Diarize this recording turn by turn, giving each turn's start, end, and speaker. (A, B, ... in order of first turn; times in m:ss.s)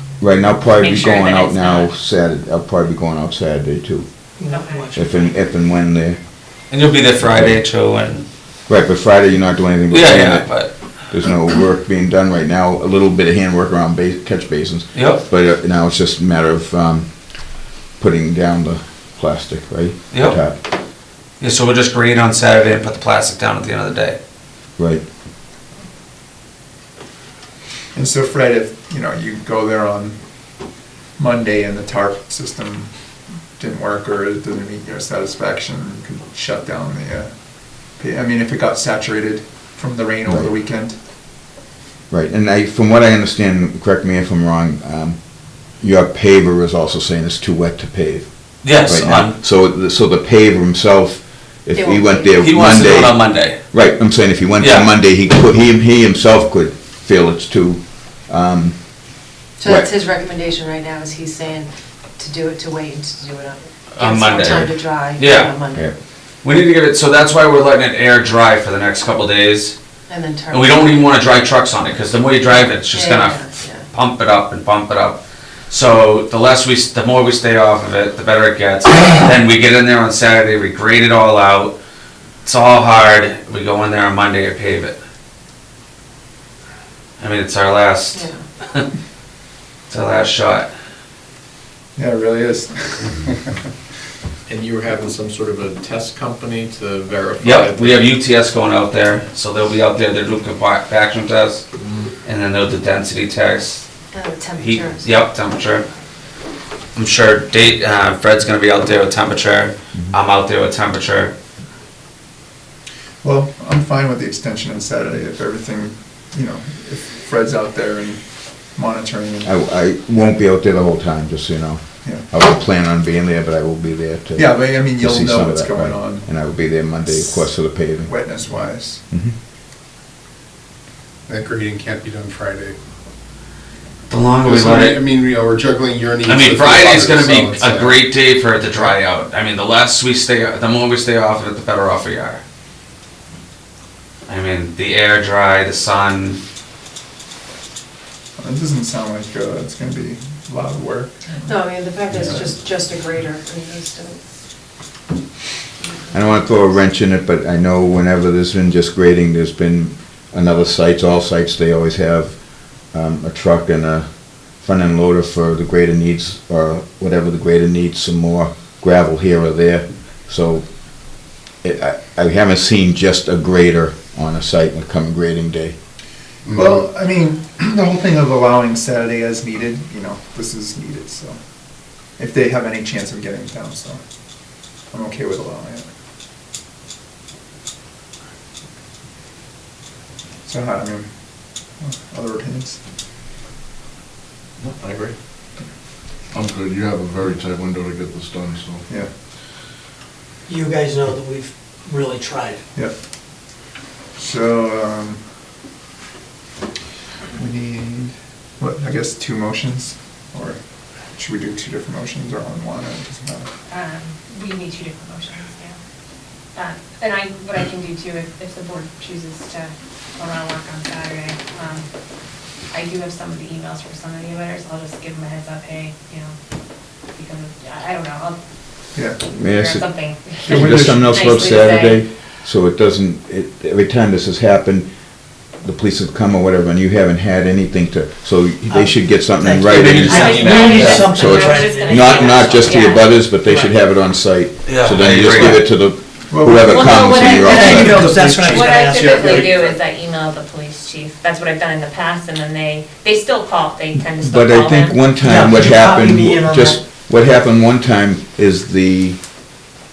0:00.2-0:04.3 A
0:00.6-0:01.9 B
0:04.4-0:05.0 C
0:04.5-0:04.9 B
0:04.9-0:06.2 A
0:06.7-0:08.2 D
0:07.2-0:07.6 A
0:08.7-0:20.6 A
0:09.9-0:10.9 D
0:14.9-0:15.2 D
0:20.1-0:20.4 D
0:21.4-0:24.2 D
0:24.8-0:25.0 A
0:27.9-0:30.2 E
0:31.2-0:32.9 E
0:33.6-0:37.3 E
0:37.9-0:41.0 E
0:40.3-0:40.5 A
0:42.1-0:59.9 A
0:48.6-0:49.3 D
0:51.7-0:52.6 F
0:52.4-0:53.6 D
0:54.6-0:54.9 D
0:59.6-1:05.9 F
1:03.9-1:05.6 D
1:06.4-1:09.8 D
1:10.1-1:11.2 F
1:10.5-1:21.8 D
1:12.8-1:13.9 F
1:22.4-1:25.0 D
1:27.2-1:28.8 D
1:28.1-1:28.4 F
1:29.9-1:30.7 D
1:32.0-1:33.6 E
1:34.5-1:38.1 G
1:37.4-1:41.6 D
1:42.2-1:43.9 D
1:44.1-1:45.1 F
1:44.6-1:45.8 D
1:47.0-1:51.3 D
1:53.2-1:58.2 E
1:58.7-1:59.5 E
1:59.4-2:08.1 A
2:04.3-2:06.3 E
2:08.0-2:09.0 E
2:09.1-2:09.4 A
2:11.3-2:12.8 H
2:14.1-2:15.0 D
2:14.4-2:18.2 H
2:16.2-2:22.4 D
2:24.3-2:26.4 D
2:28.4-2:31.6 E
2:31.3-2:34.2 F
2:32.2-2:32.5 E
2:36.1-2:55.8 A
2:56.4-2:56.8 H
2:56.6-3:01.4 E
3:02.2-3:04.0 E
3:04.9-3:05.9 E
3:10.4-3:11.1 E
3:11.8-3:12.8 E
3:14.6-3:15.2 G
3:16.3-3:18.8 I
3:20.5-3:22.6 C
3:24.2-3:25.2 E
3:27.3-3:33.5 E
3:33.7-3:35.8 B
3:36.5-3:41.8 B
3:42.7-3:46.3 B
3:47.2-3:48.4 B
3:49.2-3:52.1 B
3:49.3-3:49.8 A
3:50.4-4:08.1 A
3:50.4-3:51.1 E
3:58.7-4:03.8 C
3:59.6-4:01.1 D
4:00.1-4:03.2 B
4:04.6-4:05.6 D
4:06.3-4:07.0 E
4:06.6-4:15.1 B
4:07.3-4:09.1 C
4:09.1-4:09.8 H
4:14.0-4:19.5 A
4:15.2-4:16.8 C